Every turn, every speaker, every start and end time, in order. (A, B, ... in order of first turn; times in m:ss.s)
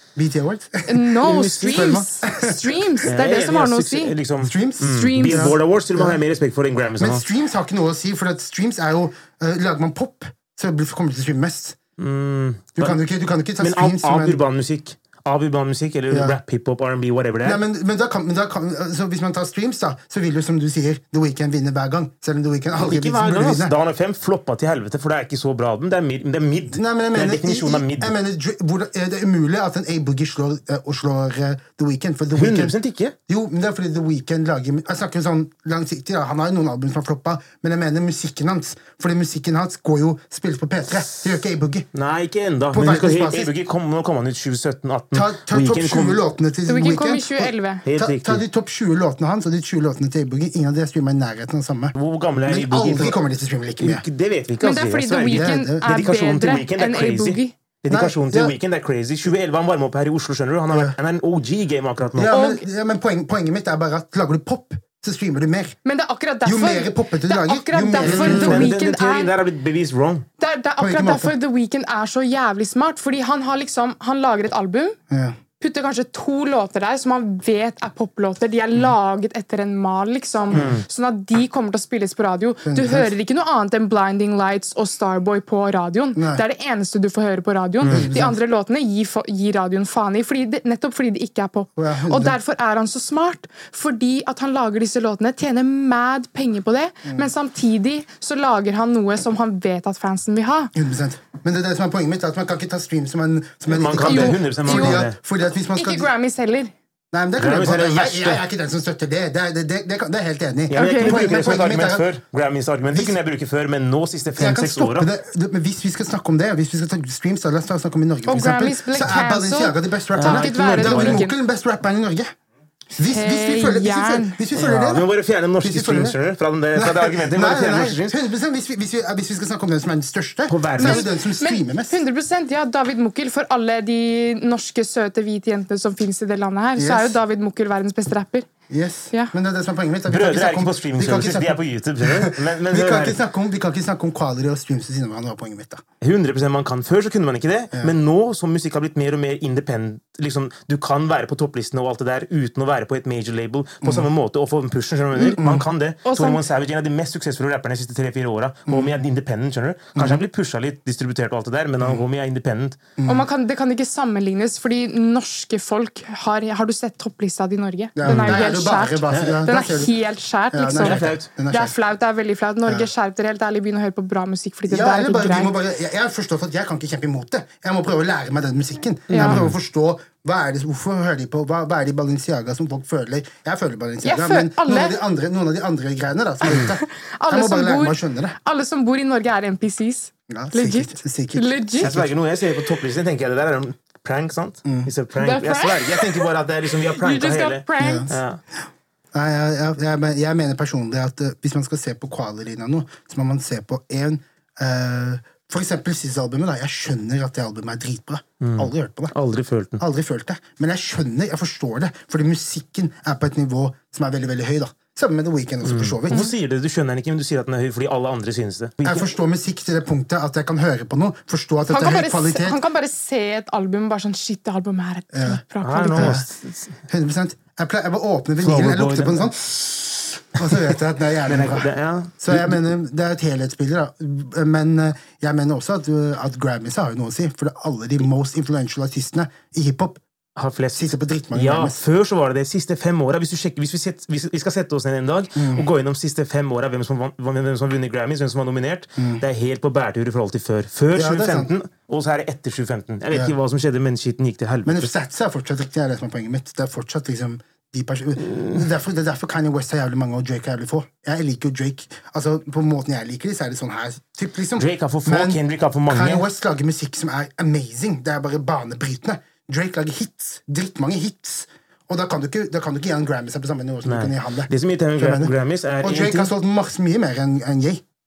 0:00.2-0:03.1 A
0:00.8-0:04.2 B
0:01.2-0:02.0 C
0:03.1-0:07.2 C
0:04.4-0:06.2 A
0:04.8-0:05.5 B
0:07.0-0:11.8 A
0:12.0-0:12.9 C
0:12.8-0:14.4 A
0:13.6-0:17.6 C
0:16.1-0:16.4 A
0:17.4-0:23.7 A
0:22.7-0:28.1 C
0:26.7-0:32.7 A
0:32.3-0:33.1 C
0:33.3-0:41.9 A
0:41.9-0:46.2 C
0:42.7-0:43.5 A
0:45.1-0:54.0 A
0:46.7-0:47.8 B
0:47.8-0:48.4 C
0:51.9-0:53.2 C
0:53.8-1:02.4 C
0:54.6-0:57.5 B
0:55.3-0:56.0 A
0:57.9-0:58.5 A
1:00.7-1:01.0 A
1:02.1-1:05.8 A
1:02.3-1:02.6 B
1:05.8-1:09.3 B
1:06.4-1:08.7 A
1:08.0-1:10.2 C
1:10.4-1:15.0 B
1:10.8-1:11.3 A
1:15.1-1:15.4 A
1:15.6-1:40.7 B
1:20.5-1:20.8 C
1:22.6-1:23.1 A
1:26.2-1:26.4 A
1:27.8-1:28.1 C
1:27.9-1:28.4 A
1:31.8-1:32.4 A
1:40.7-1:46.1 A
1:43.7-1:45.2 C
1:44.0-1:45.0 B
1:45.7-1:46.7 B
1:47.1-1:52.1 A
1:47.4-1:48.4 C
1:50.7-1:55.1 C
1:50.7-1:51.4 B
1:52.9-1:53.2 A
1:54.4-2:02.3 A
1:58.3-2:01.4 B
2:00.2-2:01.2 C
2:03.0-2:06.2 A
2:03.0-2:04.4 B
2:04.5-2:08.2 C
2:06.7-2:12.0 A
2:10.5-2:11.1 C
2:10.8-2:18.5 B
2:16.8-2:17.2 A
2:18.7-2:25.8 A
2:20.1-2:23.2 C
2:26.0-2:42.8 C
2:33.8-2:34.1 A
2:35.2-2:35.6 A
2:36.0-2:36.4 B
2:40.0-2:40.2 A
2:43.0-2:43.2 A
2:43.0-2:55.6 B
2:48.0-2:49.9 A
2:48.0-2:48.4 C
2:49.1-2:49.4 C
2:50.5-2:51.7 A
2:50.8-2:51.3 C
2:54.7-3:08.4 A
2:59.1-2:59.4 B
2:59.1-2:59.5 C
3:04.0-3:05.0 B
3:06.4-3:12.0 B
3:10.3-3:12.1 A
3:11.8-3:18.4 C
3:14.6-3:14.9 A
3:15.2-3:16.3 B
3:16.9-3:18.1 B
3:17.8-3:18.1 A
3:19.1-3:29.1 A
3:28.4-3:29.8 C
3:29.8-3:36.3 A
3:35.6-3:39.1 C
3:38.8-3:42.6 A
3:41.7-3:46.2 B
3:45.1-3:45.4 A
3:45.6-3:46.8 C
3:45.9-3:46.2 A
3:46.8-3:51.7 A
3:48.4-3:49.3 C
3:51.2-3:52.5 C
3:52.2-4:00.0 A
4:00.4-4:14.9 C
4:00.7-4:01.8 A
4:05.4-4:05.7 A
4:09.0-4:09.2 A
4:10.9-4:11.5 A
4:14.6-4:37.8 A
4:18.2-4:18.6 C
4:24.6-4:26.2 C
4:33.8-4:36.3 C